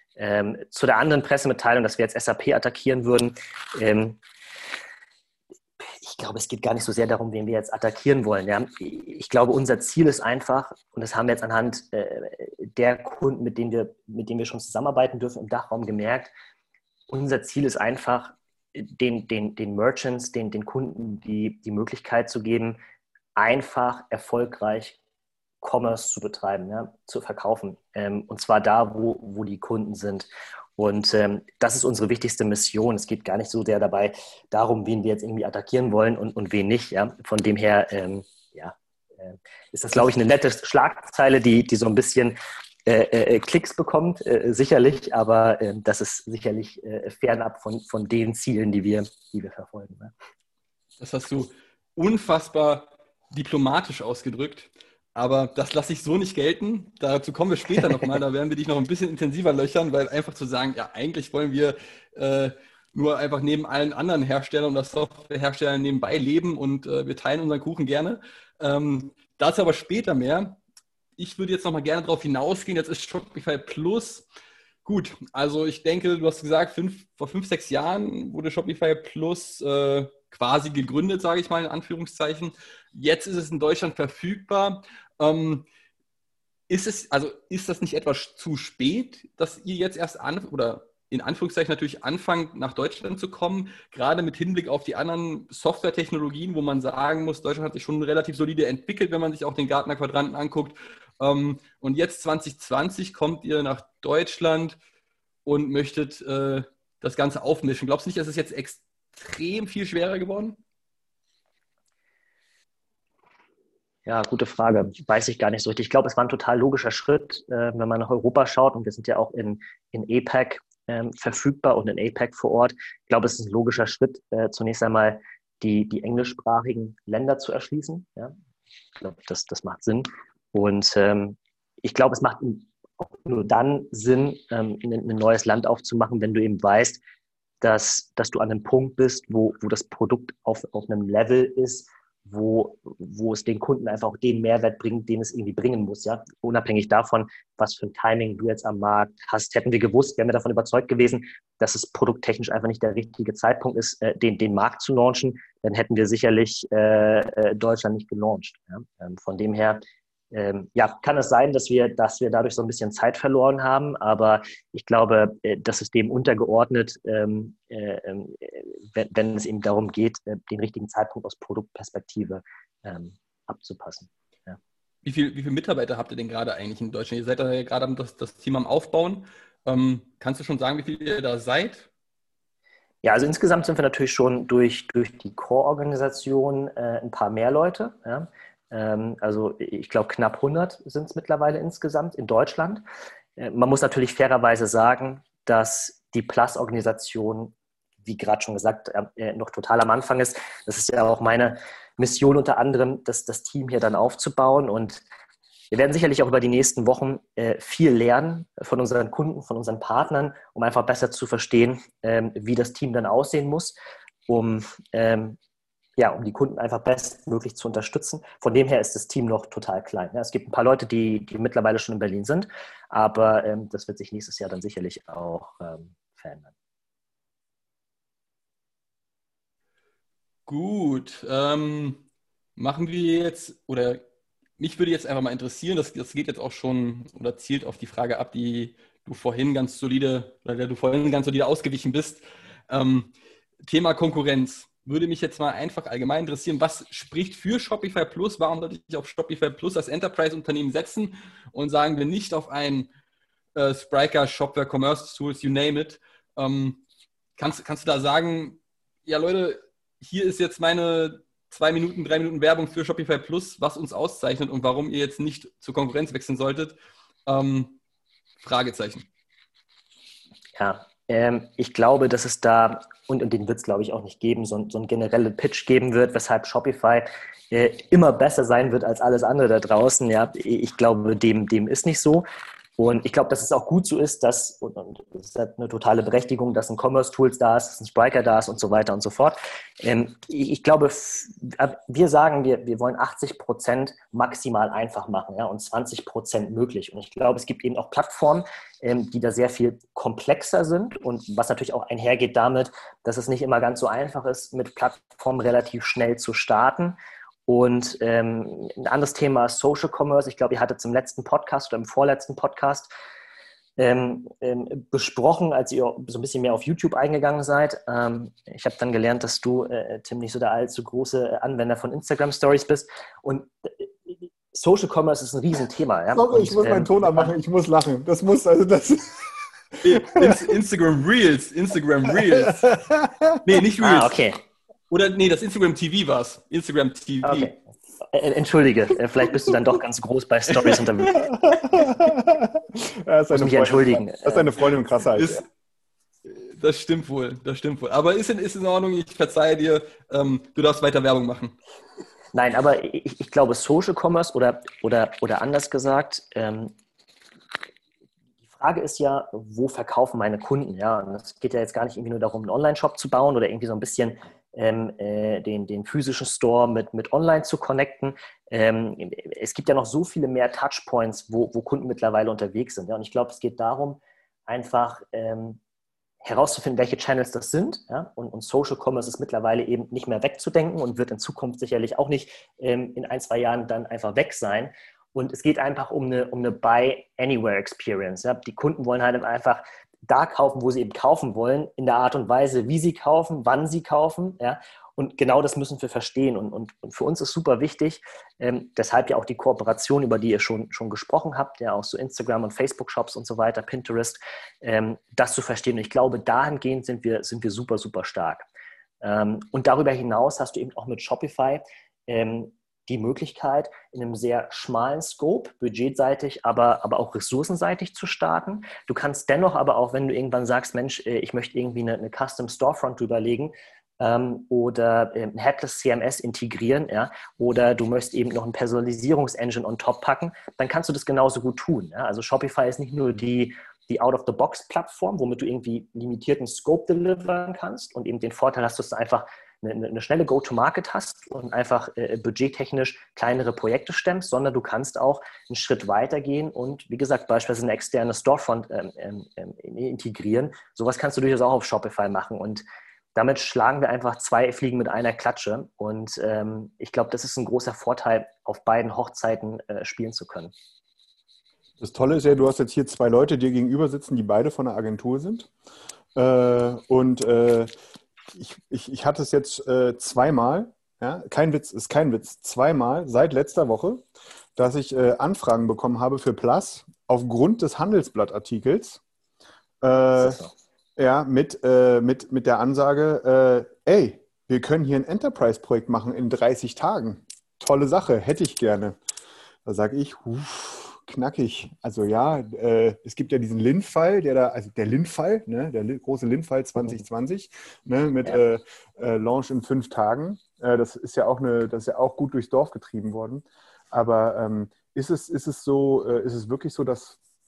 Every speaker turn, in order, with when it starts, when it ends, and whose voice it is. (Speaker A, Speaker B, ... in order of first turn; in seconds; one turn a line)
Speaker A: 0.1-4.2
Speaker A: 5.8-16.3
Speaker A: 17.1-22.8
Speaker A: 23.4-25.0
Speaker A: 25.6-50.1
Speaker B: 51.0-70.6
Speaker B: 71.2-74.2
Speaker B: 74.8-85.6
Speaker B: 86.7-104.8
Speaker B: 105.4-110.6
Speaker A: 114.0-128.3
Speaker A: 129.0-137.0
Speaker A: 137.6-174.6
Speaker B: 175.0-181.9
Speaker A: 183.0-192.8
Speaker A: 193.4-205.0
Speaker A: 205.7-213.8
Speaker A: 214.3-215.4
Speaker A: 216.0-226.5
Speaker B: 230.5-232.0
Speaker B: 232.6-234.0
Speaker B: 234.6-243.1
Speaker B: 243.6-252.9
Speaker B: 253.5-256.8
Speaker B: 257.4-267.8
Speaker B: 268.4-269.1
Speaker A: 270.6-282.2
Speaker A: 282.8-312.9
Speaker A: 313.8-327.3
Speaker C: 326.1-330.5
Speaker B: 329.8-332.7
Speaker C: 332.1-333.4
Speaker B: 333.4-334.2
Speaker A: 333.8-334.4
Speaker B: 334.9-337.5
Speaker A: 337.2-337.6
Speaker A: 338.1-341.2
Speaker C: 341.1-345.4
Speaker A: 343.3-344.5
Speaker B: 345.1-345.4
Speaker B: 346.2-351.6
Speaker A: 352.3-356.7
Speaker A: 358.5-375.6
Speaker A: 376.2-408.4
Speaker A: 409.0-452.6
Speaker A: 453.1-460.5
Speaker C: 461.8-465.5
Speaker C: 466.1-467.7
Speaker C: 468.3-474.0
Speaker C: 474.6-479.0
Speaker C: 479.8-480.4
Speaker A: 480.2-480.5
Speaker C: 481.0-489.0
Speaker C: 489.6-507.2